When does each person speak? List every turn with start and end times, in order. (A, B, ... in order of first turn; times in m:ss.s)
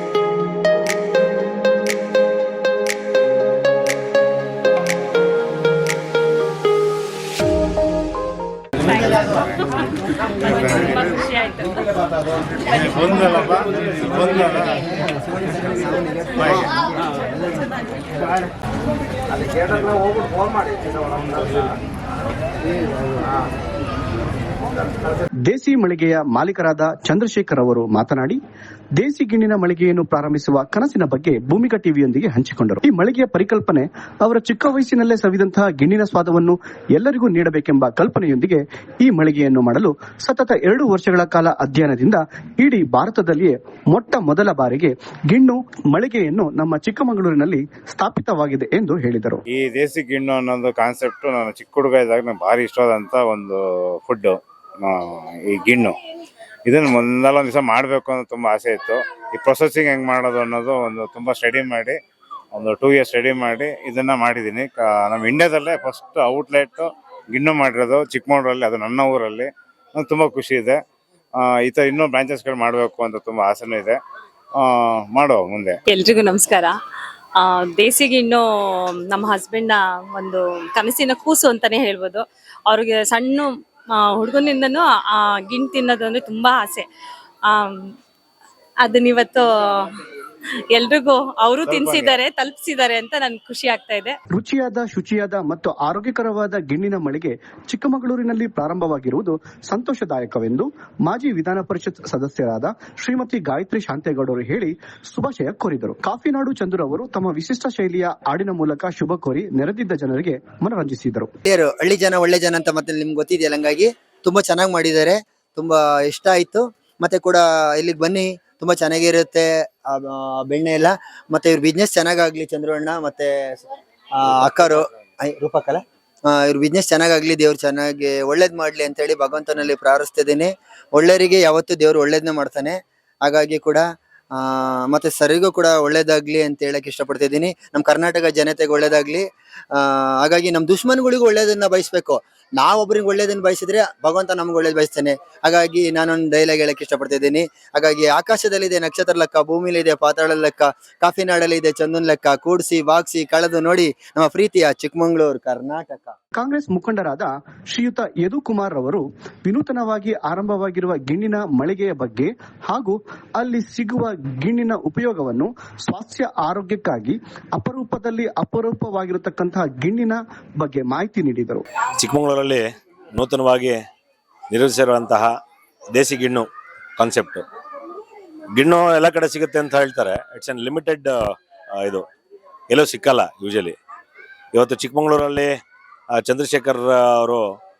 0:12.7-0:14.8 A
0:16.4-0:16.7 A
0:25.5-0:28.4 B
0:29.0-0:49.4 B
0:49.5-0:56.0 A
0:56.7-1:02.0 A
1:02.5-1:10.8 A
1:11.4-1:14.0 A
1:14.6-1:15.8 A
1:15.9-1:16.8 C
1:17.4-1:26.9 C
1:27.4-1:27.9 C
1:28.8-1:29.9 C
1:30.7-1:34.1 C
1:31.7-1:32.2 A
1:34.3-1:51.3 B
1:51.5-2:03.6 D
2:04.2-2:13.8 D
2:14.4-2:19.2 D
2:19.7-2:36.1 D
2:36.4-2:51.6 B
2:52.0-2:53.8 E
2:54.5-2:55.3 E
2:55.9-2:57.4 E
2:58.6-3:01.1 E
3:01.8-3:02.0 E
3:02.7-3:03.8 E
3:04.5-3:05.5 E
3:06.2-3:07.4 E